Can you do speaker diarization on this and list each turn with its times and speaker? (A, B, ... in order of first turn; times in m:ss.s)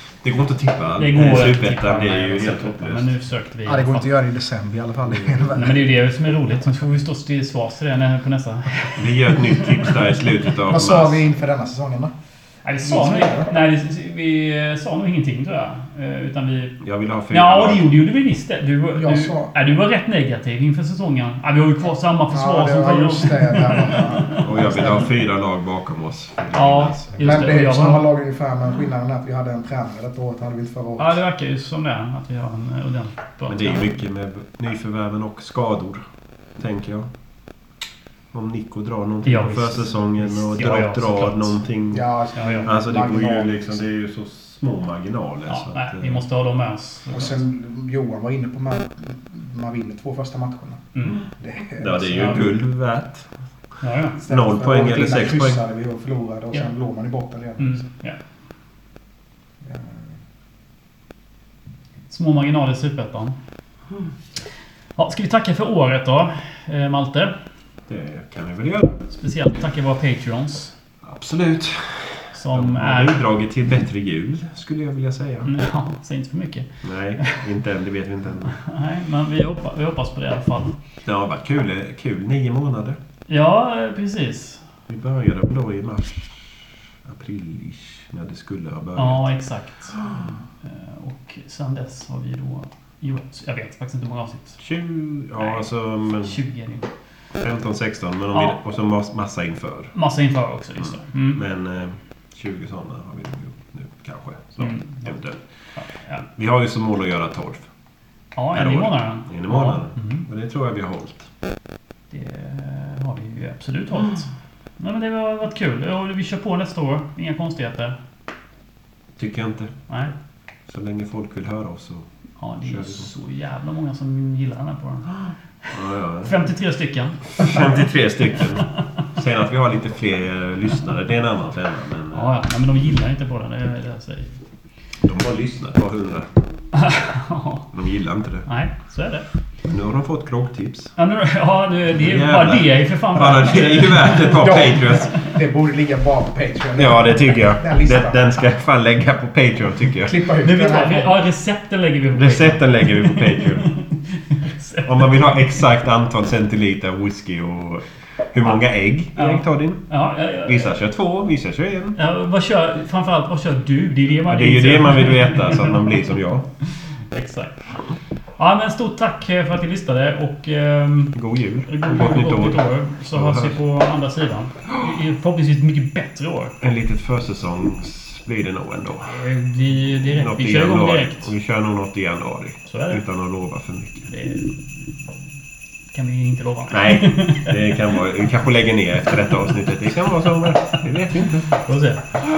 0:00.2-0:03.1 A
0:01.0-0:04.1 B
0:03.6-0:05.8 C
0:05.5-0:09.9 B
0:08.9-0:11.2 A
0:10.6-0:12.1 C
0:12.6-0:16.8 B
0:12.8-0:13.5 C
0:16.8-0:17.9 A
0:17.3-0:24.9 B
0:18.9-0:19.5 C
0:22.3-0:25.1 C
0:24.4-0:27.2 A
0:26.5-0:28.0 B
0:27.2-0:31.2 C
0:31.0-0:33.9 B
0:33.5-0:36.0 A
0:36.6-0:37.1 A
0:38.3-0:42.1 A
0:39.2-0:41.6 B
0:41.9-0:43.8 C
0:42.4-0:42.7 B
0:42.6-0:46.2 A
0:45.5-0:47.4 B
0:47.1-0:52.6 C
0:50.9-0:51.2 B
0:51.8-0:53.2 A
0:53.8-0:54.2 B
0:54.2-0:57.9 C
0:54.2-0:55.6 A
0:57.6-0:58.2 B
0:59.6-1:00.1 C
1:02.1-1:03.4 B
1:05.0-1:07.3 B
1:07.9-1:09.0 A
1:09.1-1:10.7 B
1:11.0-1:15.5 A
1:12.3-1:13.2 B
1:15.4-1:16.7 B
1:16.8-1:18.6 A
1:18.5-1:20.8 B
1:21.0-1:23.0 A
1:23.3-1:24.6 B
1:24.9-1:29.3 A
1:29.0-1:30.0 B
1:30.0-1:30.3 A
1:30.6-1:34.6 B
1:34.6-1:36.4 A
1:35.4-1:35.7 B
1:36.2-1:36.9 B
1:37.4-1:39.9 A
1:39.9-1:41.4 B
1:40.8-1:45.4 A
1:44.6-1:45.1 B
1:45.8-1:46.2 B
1:46.3-1:47.7 A
1:48.4-1:50.2 B
1:48.5-1:51.3 A
1:52.1-1:58.0 B
1:59.2-1:59.7 A
2:00.7-2:02.0 A
2:02.4-2:05.2 B
2:02.6-2:03.1 A
2:05.7-2:06.3 A
2:06.2-2:07.6 B
2:07.4-2:12.3 A
2:12.1-2:14.4 B
2:15.0-2:16.3 A
2:16.7-2:17.7 B
2:17.7-2:18.5 A
2:18.4-2:19.2 B
2:19.6-2:20.9 A
2:21.0-2:24.4 B
2:21.9-2:25.2 A
2:24.2-2:28.2 C
2:26.8-2:30.1 A
2:30.0-2:31.1 C
2:30.4-2:35.3 B
2:32.1-2:33.8 A
2:34.8-2:39.9 A
2:39.2-2:40.7 B
2:40.4-2:42.0 A
2:42.0-2:45.8 B
2:44.3-2:46.4 A
2:47.1-2:47.6 B
2:48.4-2:56.6 B
2:51.1-2:53.6 A
2:56.6-2:59.2 A
2:59.0-3:01.3 B
3:00.1-3:04.1 A
3:02.6-3:03.0 B
3:04.1-3:04.6 B
3:05.9-3:07.5 B
3:06.7-3:11.6 A
3:11.6-3:12.2 B